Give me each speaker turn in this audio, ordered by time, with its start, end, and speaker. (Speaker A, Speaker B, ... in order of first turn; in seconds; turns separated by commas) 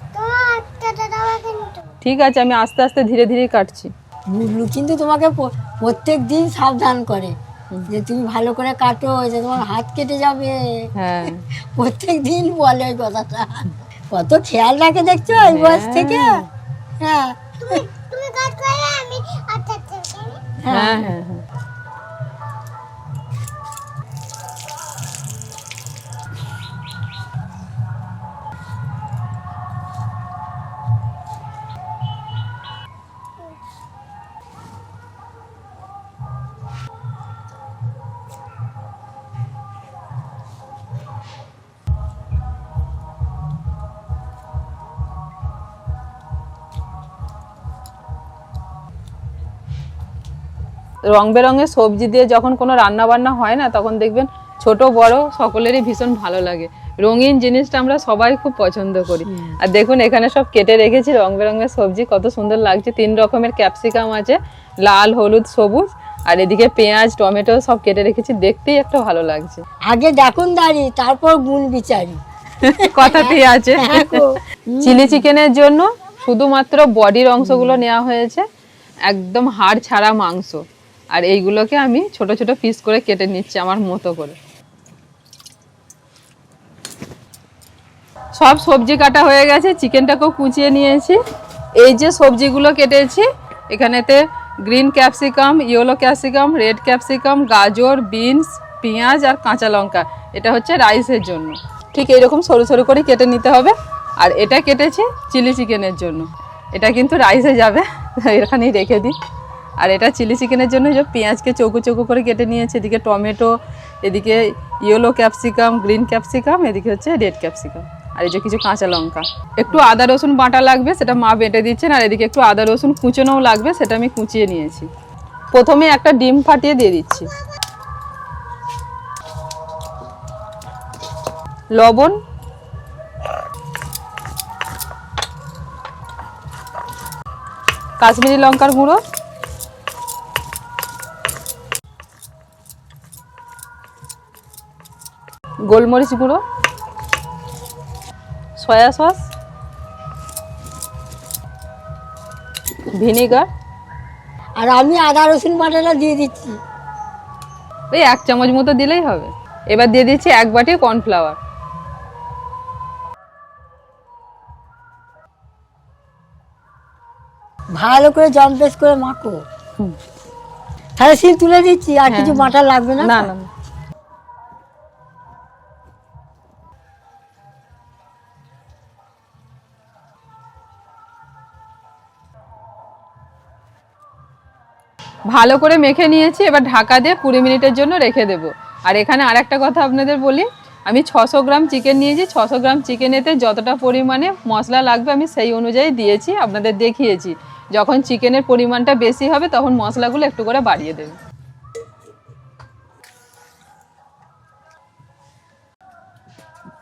Speaker A: 0.1-1.8, Speaker B: 2.0-3.9, Speaker C: 4.3-7.3, Speaker C: 7.9-10.9, Speaker B: 10.9-11.4, Speaker C: 11.7-16.4, Speaker B: 15.4-16.5, Speaker C: 17.0-17.8, Speaker A: 17.6-20.5, Speaker C: 20.6-21.1, Speaker B: 20.7-21.4, Speaker B: 51.1-69.6, Speaker C: 69.9-75.2, Speaker B: 72.6-78.4, Speaker C: 77.5-77.8, Speaker B: 79.1-84.3, Speaker B: 88.3-91.2, Speaker B: 91.8-109.2, Speaker B: 109.8-124.9, Speaker B: 125.5-127.3, Speaker B: 131.8-132.2, Speaker B: 138.0-139.0, Speaker B: 145.7-146.4, Speaker B: 148.6-149.2, Speaker B: 152.9-153.5, Speaker C: 154.6-156.6, Speaker B: 157.9-161.4, Speaker C: 167.8-169.4, Speaker C: 171.0-173.3, Speaker B: 172.1-173.5, Speaker B: 185.3-201.2